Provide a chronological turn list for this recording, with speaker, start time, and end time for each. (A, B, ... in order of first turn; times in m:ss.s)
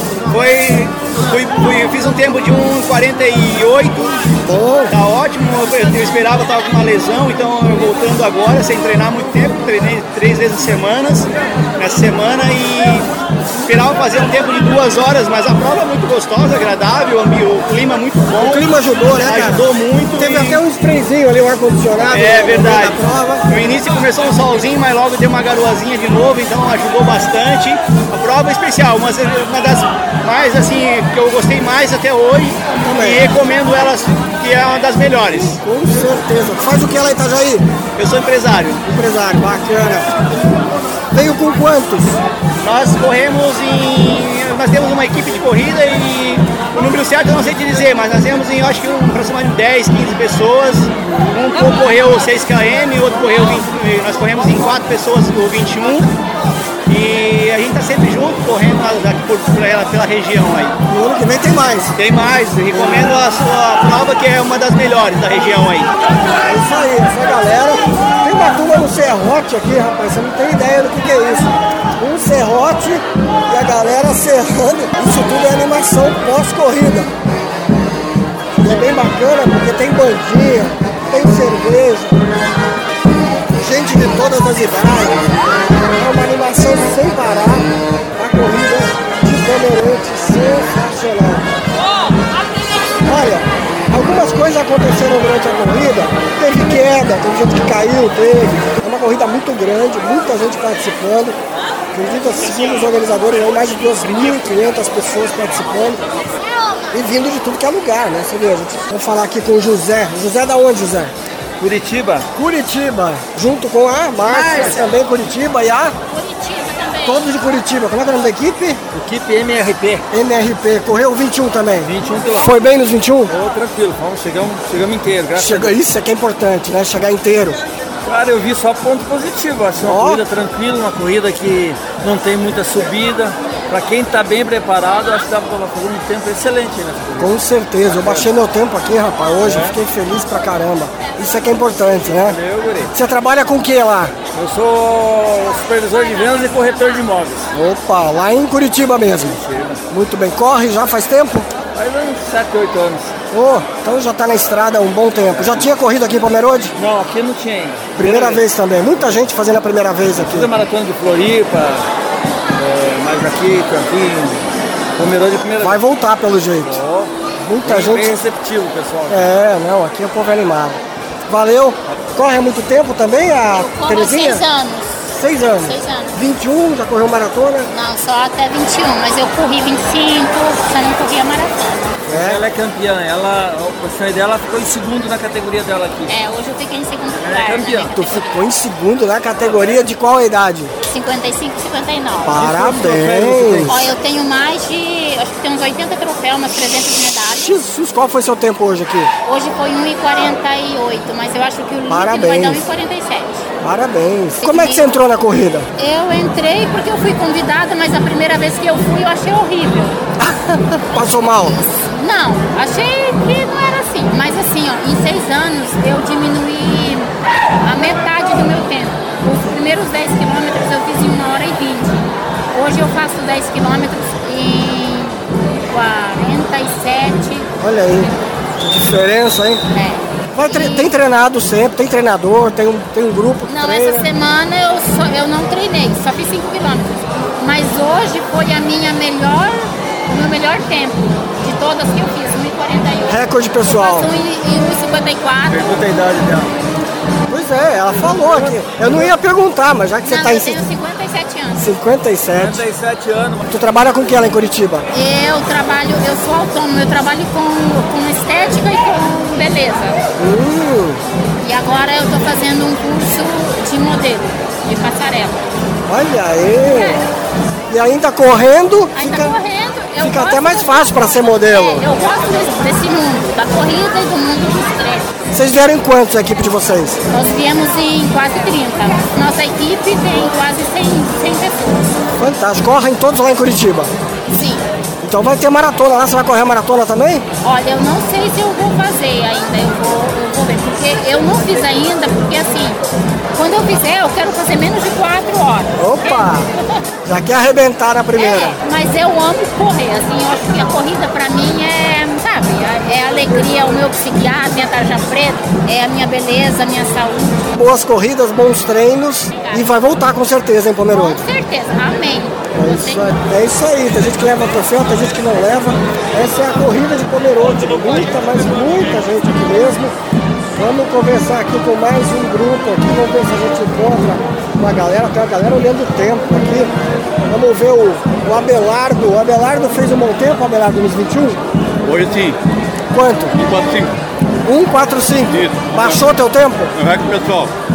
0:00.2-0:04.4 A
0:04.4-0:04.9 B
0:04.9-0:13.1 A
0:13.6-0:20.6 A
0:18.3-0:23.4 B
0:22.0-0:35.6 A
0:32.8-0:33.2 B
0:35.6-0:37.6 B
0:38.0-0:38.8 A
0:38.8-0:40.1 B
0:41.1-0:42.2 B
0:42.6-0:56.1 A
0:56.9-1:00.8 A
1:00.9-1:02.0 B
1:02.0-1:05.9 A
1:02.7-1:03.1 B
1:06.4-1:17.1 B
1:18.6-1:22.2 B
1:23.6-1:31.5 B
1:33.0-1:41.4 B
1:41.9-1:46.0 B
1:46.9-1:51.1 B
1:51.6-1:52.3 C
1:52.3-1:55.9 B
1:54.2-1:54.9 C
1:56.1-1:57.2 D
1:57.0-1:58.8 B
1:58.9-2:00.0 C
2:00.1-2:03.3 B
2:01.8-2:02.5 C
2:03.3-2:05.8 C
2:05.4-2:07.6 B
2:08.0-2:18.3 C
2:09.8-2:10.2 B
2:17.2-2:22.4 B
2:19.4-2:19.8 C
2:22.1-2:22.9 C
2:22.9-2:24.2 B
2:24.3-2:27.5 C
2:27.5-2:29.4 B
2:29.4-2:29.8 C
2:29.9-2:31.5 B
2:31.7-2:33.1 C
2:33.3-2:36.7 B
2:35.3-2:35.7 C
2:36.8-2:38.4 C
2:38.0-2:40.5 B
2:40.2-2:41.9 C
2:42.5-2:44.4 C
2:45.0-2:45.8 C
2:45.6-2:46.8 B
2:46.6-2:47.1 C
2:47.4-2:48.2 B
2:47.6-2:49.4 C
2:49.1-2:54.4 B
2:53.5-2:56.2 D
2:55.1-2:57.7 B
2:57.7-3:02.0 D
3:02.1-3:06.1 C
3:02.1-3:02.4 B
3:06.1-3:08.3 D
3:07.2-3:07.9 C
3:07.9-3:10.7 B
3:10.8-3:12.5 D
3:12.2-3:13.9 B
3:12.4-3:13.7 C
3:13.7-3:17.5 D
3:17.3-3:19.1 B
3:19.2-3:23.5 D
3:21.9-3:22.6 B
3:23.6-3:25.7 B
3:24.4-3:24.8 D
3:25.8-3:30.0 D
3:30.2-3:31.6 B
3:31.7-3:37.1 D
3:37.6-3:47.5 D
3:47.6-3:49.6 B
3:49.7-3:50.9 D
3:50.3-3:54.1 B
3:53.5-4:05.8 D
4:03.1-4:04.1 B
4:05.5-4:06.5 C
4:07.3-4:10.6 B
4:10.0-4:11.6 D
4:11.6-4:12.6 B
4:12.4-4:13.5 C
4:13.5-4:14.9 B
4:14.9-4:20.0 D
4:20.2-4:21.0 B
4:21.4-4:25.5 D
4:25.9-4:27.0 B
4:26.7-4:27.0 D
4:27.7-4:29.4 B
4:28.9-4:35.1 D
4:30.0-4:31.9 B
4:35.3-4:37.0 B
4:37.1-4:41.9 D
4:42.2-4:43.9 B
4:44.3-4:44.6 D
4:45.0-4:47.2 B
4:47.4-4:52.8 D
4:53.3-4:56.9 D
4:55.8-4:56.5 B
4:57.0-4:58.6 B
4:58.2-5:07.5 D
5:07.5-5:11.2 B
5:09.3-5:09.7 D
5:10.9-5:13.1 D
5:12.5-5:19.9 B
5:20.6-5:26.7 B
5:27.3-5:31.4 B
5:31.8-5:32.4 E
5:32.9-5:33.3 B
5:33.3-5:34.0 E
5:34.4-5:36.7 B
5:35.3-5:36.1 E
5:36.7-5:37.5 E